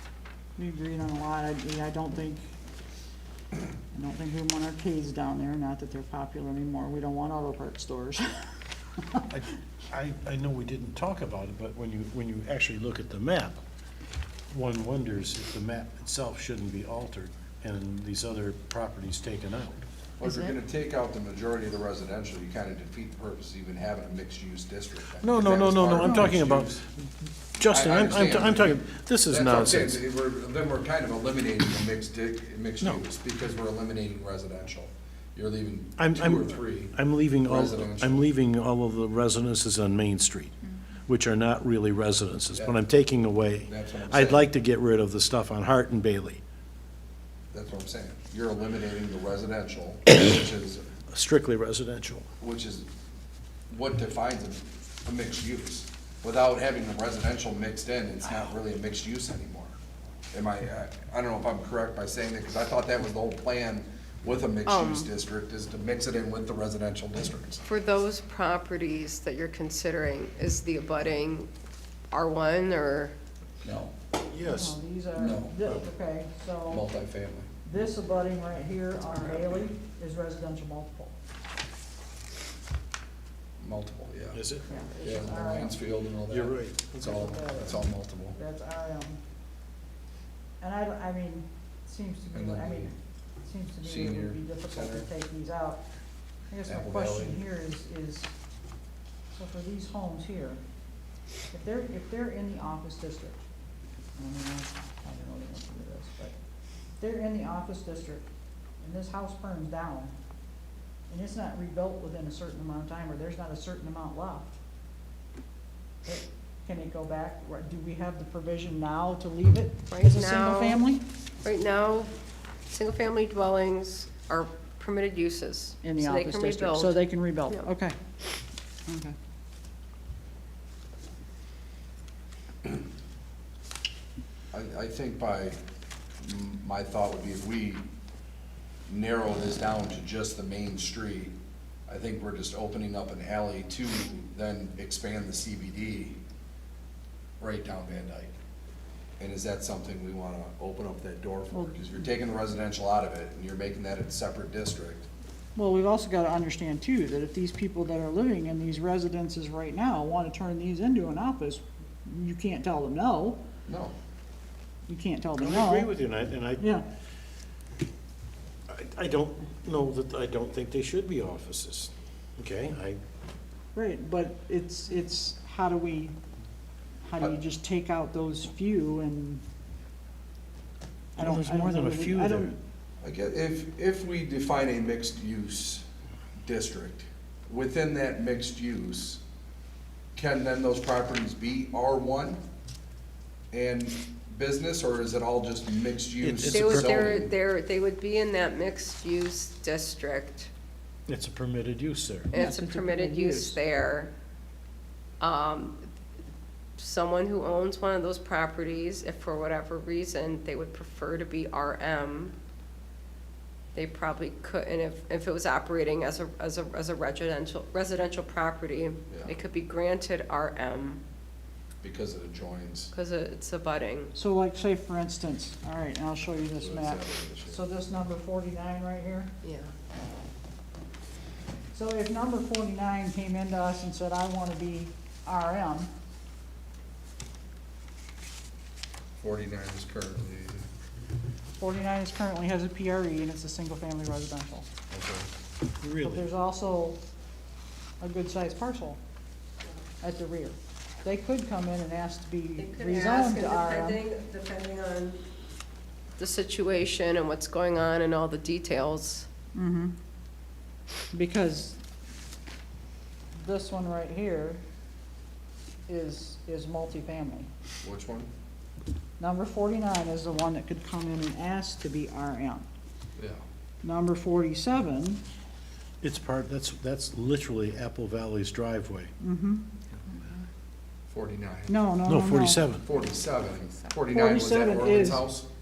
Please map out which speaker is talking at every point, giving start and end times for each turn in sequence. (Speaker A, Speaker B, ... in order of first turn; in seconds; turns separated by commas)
Speaker A: 0.6-2.4, Speaker A: 3.9-8.5, Speaker B: 9.3-13.6, Speaker B: 14.5-19.8, Speaker C: 20.2-26.8, Speaker A: 20.2-20.5, Speaker B: 25.2-30.0, Speaker A: 26.0-26.4, Speaker C: 27.7-38.2, Speaker B: 36.0-46.4, Speaker C: 43.7-44.5, Speaker C: 47.5-50.9, Speaker B: 51.1-52.3, Speaker C: 52.4-52.9, Speaker C: 53.7-59.7, Speaker C: 60.3-67.6, Speaker D: 64.7-65.1, Speaker D: 67.7-71.5, Speaker D: 72.1-73.2, Speaker C: 73.6-74.0, Speaker B: 74.3-74.8, Speaker A: 74.5-76.8, Speaker C: 75.2-75.6, Speaker C: 76.7-77.5, Speaker A: 77.7-81.2, Speaker C: 83.6-84.4, Speaker B: 84.3-84.7, Speaker A: 84.7-85.8, Speaker C: 85.0-88.4, Speaker B: 86.3-87.0, Speaker A: 87.0-89.2, Speaker A: 90.6-95.8, Speaker C: 92.3-92.9, Speaker C: 93.8-95.1, Speaker A: 96.5-98.3, Speaker C: 96.7-97.4, Speaker A: 99.3-100.6, Speaker A: 101.5-103.4, Speaker A: 104.2-106.3, Speaker A: 107.0-108.2, Speaker A: 108.8-110.1, Speaker A: 111.1-114.5, Speaker A: 116.0-121.0, Speaker D: 119.9-120.8, Speaker D: 121.4-122.1, Speaker D: 122.7-127.0, Speaker A: 125.8-128.0, Speaker A: 128.9-129.2, Speaker C: 134.5-135.6, Speaker C: 136.2-137.8, Speaker C: 138.9-141.3, Speaker C: 141.9-146.2, Speaker C: 147.4-148.4, Speaker C: 149.2-155.1, Speaker A: 155.6-163.4, Speaker C: 163.7-163.9, Speaker A: 164.9-165.9, Speaker B: 165.4-166.6, Speaker A: 166.6-166.9, Speaker B: 168.7-173.0, Speaker A: 173.7-176.1, Speaker A: 177.0-179.4, Speaker B: 181.2-182.6, Speaker A: 181.2-182.6, Speaker C: 183.0-185.8, Speaker C: 186.4-189.2, Speaker C: 190.2-192.4, Speaker C: 193.5-197.3, Speaker B: 196.2-197.3, Speaker D: 196.4-200.5, Speaker B: 201.1-202.3, Speaker D: 202.3-204.1, Speaker A: 202.3-203.6, Speaker D: 205.2-205.8, Speaker D: 206.8-212.3, Speaker D: 213.8-221.0, Speaker C: 219.1-219.3, Speaker C: 221.8-222.9, Speaker D: 222.9-224.1, Speaker A: 224.1-229.3, Speaker C: 226.6-227.6, Speaker D: 229.4-229.7, Speaker A: 231.7-235.9, Speaker C: 239.2-240.6, Speaker A: 241.6-244.7, Speaker C: 244.9-245.3, Speaker B: 245.8-246.3, Speaker A: 246.0-247.0, Speaker A: 248.0-249.0, Speaker A: 250.0-254.0, Speaker D: 252.6-255.2, Speaker D: 256.2-259.3, Speaker A: 259.6-259.9, Speaker A: 261.1-261.8, Speaker A: 263.4-264.6, Speaker A: 265.9-267.5, Speaker C: 267.8-268.3, Speaker A: 269.2-272.7, Speaker C: 273.2-273.4, Speaker A: 273.8-275.2, Speaker B: 276.0-279.1, Speaker A: 279.2-279.6, Speaker C: 281.1-281.8, Speaker A: 281.7-282.6, Speaker B: 282.1-282.9, Speaker C: 282.8-285.5, Speaker A: 284.1-285.2